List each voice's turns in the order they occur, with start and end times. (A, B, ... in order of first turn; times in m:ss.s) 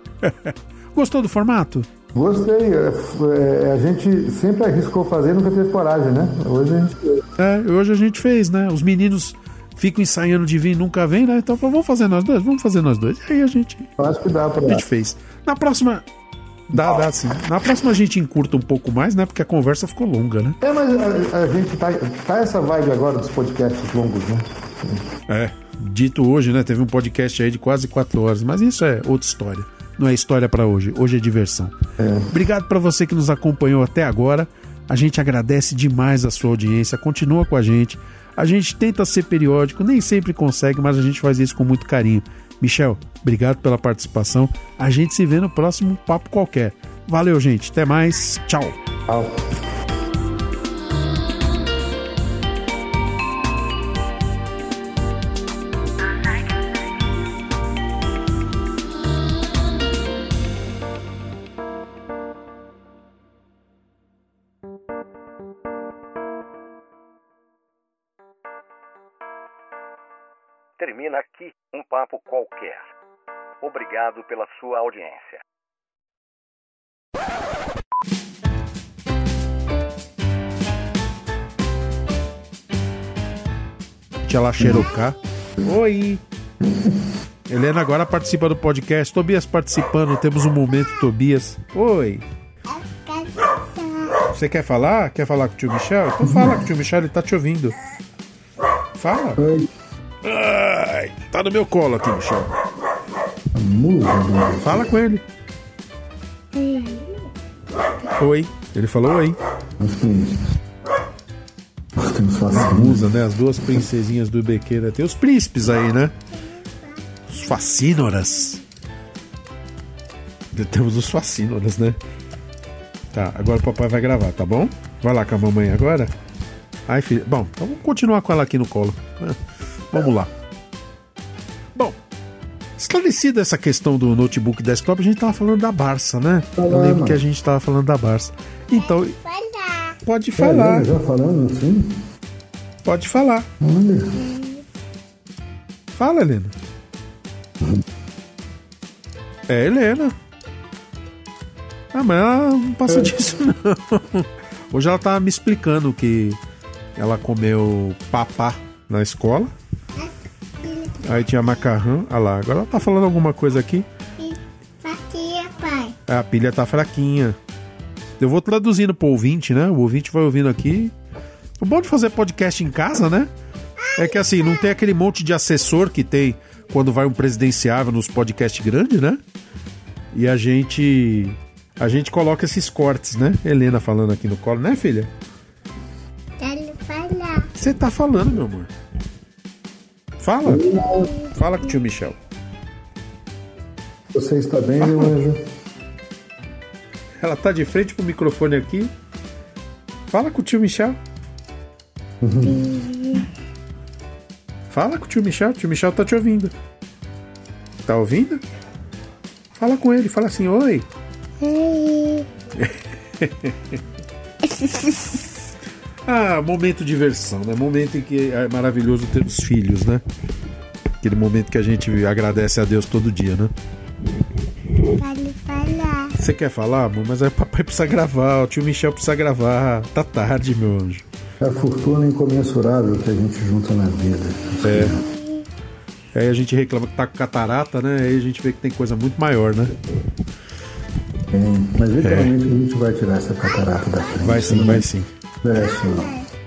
0:00.2-0:01.9 A
0:02.1-0:07.2 B
0:07.4-0:13.9 A
0:14.0-0:14.8 B
0:14.6-0:16.0 A
0:16.7-0:20.6 A
0:16.7-0:17.0 B
0:20.6-0:25.0 B
0:25.3-0:31.7 A
0:32.0-0:32.3 B
0:32.3-0:48.7 A
0:49.1-0:49.4 B
1:10.8-1:12.9 C
1:13.6-1:15.4 C
1:24.2-1:26.2 A
1:24.6-1:24.8 B
1:26.6-1:26.9 B
1:27.5-1:32.2 A
1:32.7-1:34.2 D
1:34.3-1:37.8 A
1:36.2-1:36.6 B
1:39.0-1:39.4 A
1:39.4-1:39.7 B
1:40.2-1:42.5 A
1:43.5-1:44.9 B
1:44.6-1:45.2 A
1:46.5-1:47.3 D
1:48.1-1:49.4 A
1:49.8-1:50.5 B
1:52.0-1:53.1 B
1:52.5-1:56.1 A
1:57.3-1:58.6 A
2:00.5-2:02.0 A
2:03.1-2:06.1 A
2:06.9-2:10.3 A
2:12.8-2:19.1 A
2:16.6-2:17.2 B
2:18.7-2:20.0 D
2:20.0-2:20.9 A
2:20.4-2:21.9 B
2:22.8-2:23.5 A
2:23.6-2:24.2 B
2:24.2-2:24.6 D
2:26.0-2:26.5 A
2:29.5-2:30.1 A
2:31.9-2:36.4 A
2:32.9-2:33.1 B
2:37.0-2:39.5 A
2:40.0-2:41.0 D
2:41.0-2:43.8 A
2:44.2-2:45.9 D
2:46.1-2:47.4 A
2:48.2-2:50.9 A
2:51.6-2:53.3 A
2:53.8-2:54.7 D
2:53.9-2:59.2 A
3:00.1-3:05.1 A
3:06.4-3:07.5 D
3:07.6-3:08.7 A
3:10.2-3:10.7 A
3:10.4-3:11.1 B
3:11.3-3:12.2 A
3:14.1-3:15.4 B
3:14.8-3:15.1 A
3:17.2-3:18.9 A
3:20.1-3:21.0 A
3:22.2-3:22.6 B
3:22.4-3:23.3 D
3:24.7-3:26.5 A
3:27.8-3:28.4 A
3:29.6-3:30.8 A
3:31.4-3:32.3 D
3:32.6-3:33.8 A
3:34.4-3:35.2 D
3:36.0-3:40.0 A
3:41.0-3:43.5 A
3:44.7-3:46.1 D
3:46.2-3:51.0 A
3:51.4-3:55.0 B
3:54.6-3:55.0 A
3:54.8-3:55.4 D
3:56.1-3:59.7 A
4:01.3-4:04.9 B
4:02.0-4:02.3 A
4:04.2-4:05.1 A
4:05.4-4:06.1 B
4:05.5-4:06.3 D